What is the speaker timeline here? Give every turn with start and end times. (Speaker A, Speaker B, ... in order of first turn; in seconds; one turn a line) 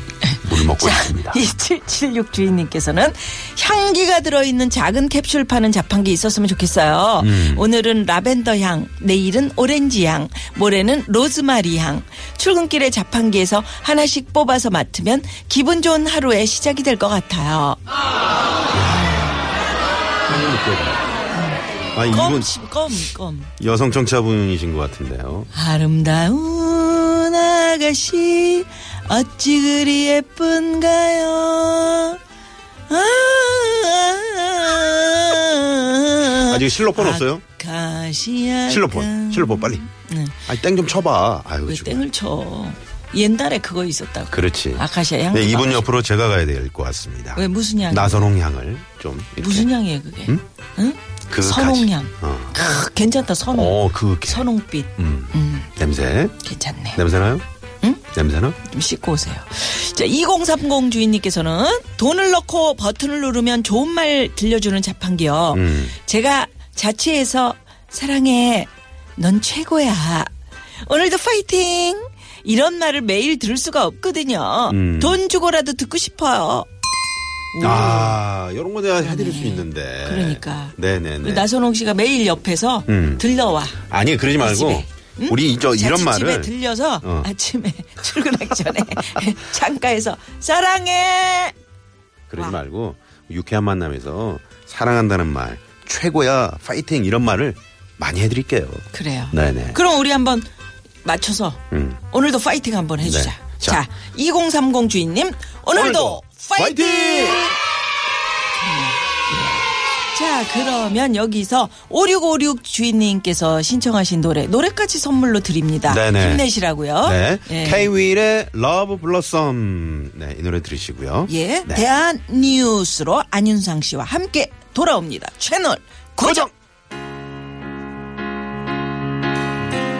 Speaker A: 0.2-17.8
Speaker B: 0.4-1.4
Speaker B: 7.2-7.7
Speaker B: 18.7-19.6
Speaker B: 20.3-21.1
Speaker A: 21.3-23.5
Speaker B: 21.9-22.5
Speaker B: 23.6-25.5
Speaker A: 25.5-32.2
Speaker A: 32.9-40.4
Speaker B: 36.4-37.4
Speaker B: 38.7-39.9
Speaker B: 40.5-42.1
Speaker A: 41.6-45.9
Speaker B: 44.3-49.7
Speaker A: 47.3-48.3
Speaker A: 49.4-55.7
Speaker B: 51.3-52.6
Speaker B: 53.5-56.4
Speaker A: 56.4-57.0
Speaker B: 57.0-57.4
Speaker B: 58.1-58.6
Speaker A: 58.6-70.3
Speaker B: 65.5-66.0
Speaker A: 70.8-76.7
Speaker B: 74.7-75.2
Speaker A: 77.5-78.2
Speaker B: 77.6-81.5
Speaker A: 79.0-83.8
Speaker B: 82.9-83.2
Speaker B: 83.8-87.3
Speaker A: 84.4-91.5
Speaker B: 92.3-99.8
Speaker A: 98.9-100.5
Speaker A: 101.0-107.6
Speaker B: 101.7-102.0
Speaker B: 103.0-103.8
Speaker B: 105.7-107.5
Speaker A: 108.6-117.9
Speaker B: 115.9-116.5
Speaker B: 117.0-121.8
Speaker A: 121.3-126.5
Speaker B: 126.2-126.5